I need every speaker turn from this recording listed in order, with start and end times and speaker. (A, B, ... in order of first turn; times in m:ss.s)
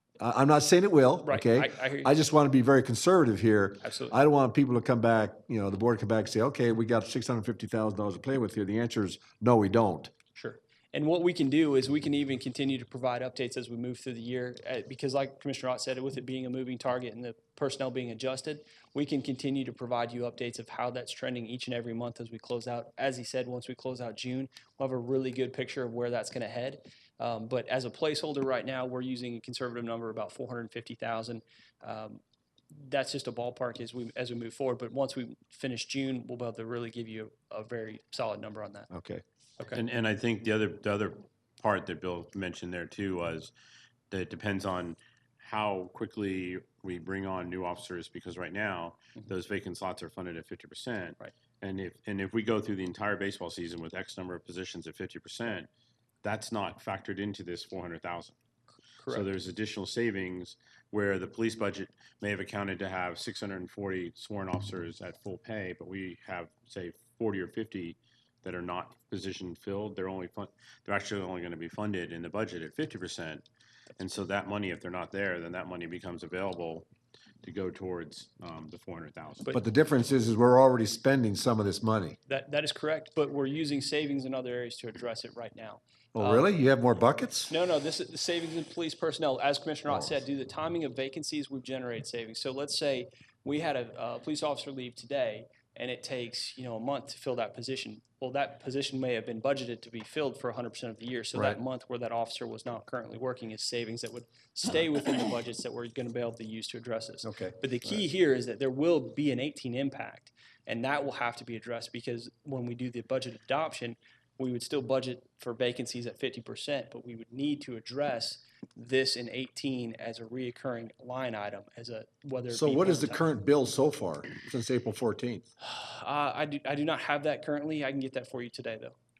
0:00.2-0:10.1 A
0:01.2-0:02.1 B
0:03.8-0:04.1 B
0:10.3-0:32.2 B
0:32.7-0:38.9 B
0:38.9-0:39.2 A
0:39.7-0:43.5 C
0:44.1-0:55.7 C
0:56.2-0:58.3 C
0:59.0-0:59.3 B
0:59.1-1:13.4 C
1:14.0-1:16.9 C
1:17.4-1:19.6 C
1:19.5-1:22.2 A
1:22.3-1:26.5 B
1:26.1-1:27.5 A
1:27.5-2:03.2 B
1:41.3-1:41.6 A
1:47.2-1:48.0 A
2:02.5-2:05.5 A
2:05.6-2:09.0 B